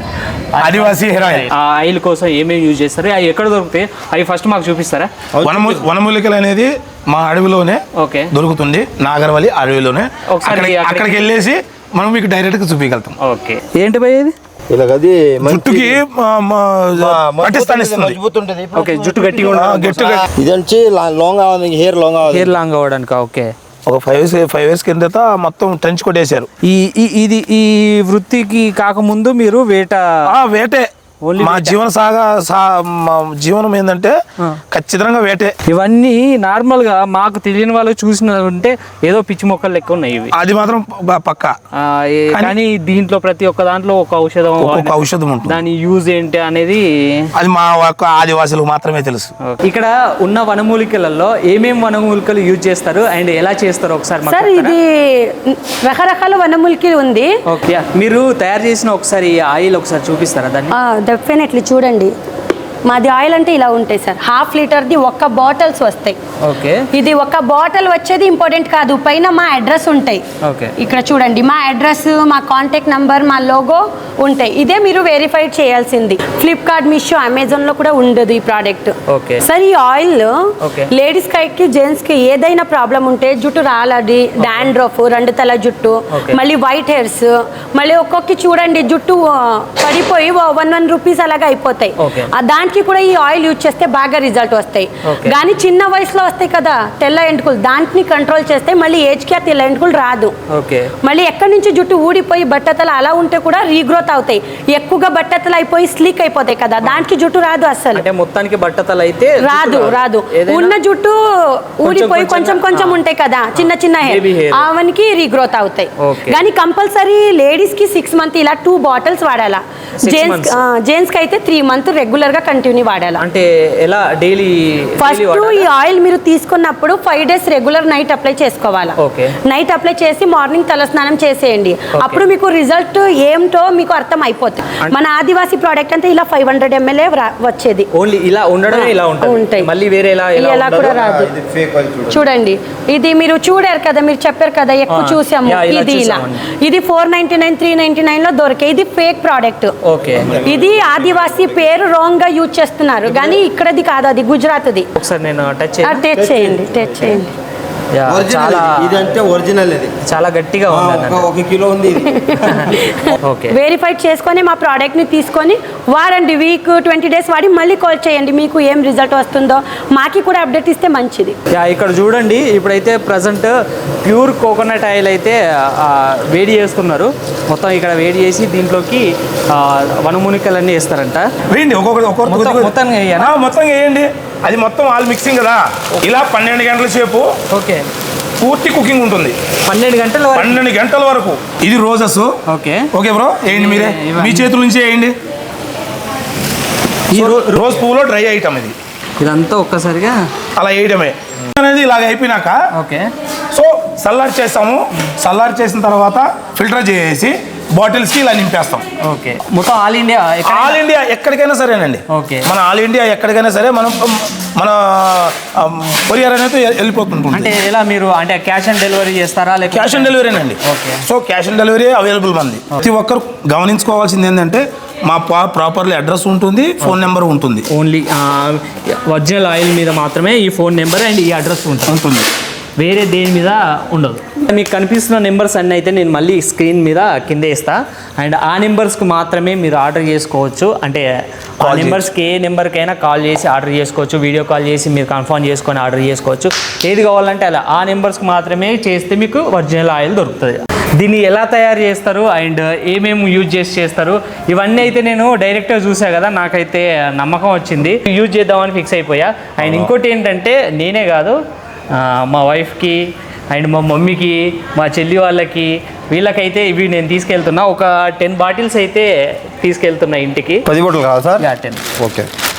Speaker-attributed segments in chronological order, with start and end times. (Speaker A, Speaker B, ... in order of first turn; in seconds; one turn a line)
Speaker A: 0.5-5.1
Speaker B: 0.6-1.5
Speaker C: 5.3-5.9
Speaker B: 5.4-13.1
Speaker A: 8.0-8.3
Speaker A: 10.3-11.1
Speaker A: 13.2-14.3
Speaker C: 14.7-16.0
Speaker B: 15.4-18.2
Speaker C: 16.9-19.6
Speaker A: 18.7-20.2
Speaker B: 19.5-20.2
Speaker C: 20.3-22.6
Speaker A: 22.2-23.5
Speaker B: 23.9-26.5
Speaker A: 26.6-30.1
Speaker B: 30.2-34.2
Speaker A: 31.2-31.8
Speaker B: 34.7-35.5
Speaker A: 35.7-40.3
Speaker B: 40.3-41.5
Speaker A: 41.7-47.2
Speaker B: 44.6-45.6
Speaker B: 47.3-49.3
Speaker A: 49.4-54.8
Speaker D: 54.2-57.3
Speaker A: 57.5-60.7
Speaker D: 60.7-62.1
Speaker D: 62.8-66.2
Speaker A: 66.4-66.8
Speaker D: 66.9-70.2
Speaker A: 70.4-70.7
Speaker D: 70.8-80.3
Speaker A: 79.1-79.4
Speaker A: 80.6-80.9
Speaker D: 80.9-100.3
Speaker A: 84.4-84.7
Speaker A: 86.1-86.4
Speaker A: 92.0-92.3
Speaker A: 95.0-95.4
Speaker A: 100.5-100.9
Speaker D: 101.0-108.0
Speaker A: 107.9-110.8
Speaker D: 109.4-123.2
Speaker A: 111.8-113.0
Speaker A: 113.5-114.7
Speaker A: 116.0-116.4
Speaker A: 120.0-120.6
Speaker A: 123.2-125.7
Speaker D: 125.0-137.9
Speaker A: 129.0-129.3
Speaker A: 131.9-132.3
Speaker A: 137.9-140.9
Speaker D: 138.7-139.7
Speaker D: 140.3-141.3
Speaker C: 140.8-142.2
Speaker D: 142.0-149.7
Speaker A: 144.9-146.4
Speaker A: 149.8-150.4
Speaker C: 150.2-151.6
Speaker D: 150.4-154.9
Speaker A: 155.0-156.0
Speaker D: 155.8-157.3
Speaker C: 156.2-157.2
Speaker A: 157.9-159.1
Speaker C: 158.1-159.9
Speaker A: 160.1-161.3
Speaker C: 160.7-162.7
Speaker D: 161.9-171.4
Speaker A: 163.2-163.6
Speaker A: 171.5-181.3
Speaker B: 181.5-187.3
Speaker A: 182.3-183.3
Speaker A: 187.5-187.9
Speaker B: 188.4-189.4
Speaker A: 189.6-190.6
Speaker B: 190.3-192.3
Speaker A: 192.5-192.9
Speaker B: 192.9-195.1
Speaker A: 193.5-194.5
Speaker A: 197.1-197.8
Speaker B: 197.1-198.7
Speaker A: 199.2-200.2
Speaker B: 200.6-202.6
Speaker A: 202.7-203.1
Speaker B: 203.5-208.8
Speaker A: 209.0-210.8
Speaker B: 210.4-217.5
Speaker A: 212.1-212.5
Speaker A: 217.3-221.0
Speaker B: 219.7-227.6
Speaker A: 227.7-231.9
Speaker B: 231.9-232.3
Speaker A: 232.8-241.1
Speaker B: 241.6-242.0
Speaker A: 241.6-261.4
Speaker B: 259.6-259.9
Speaker A: 261.9-270.6
Speaker C: 270.7-271.4
Speaker A: 271.4-271.8
Speaker C: 272.0-272.3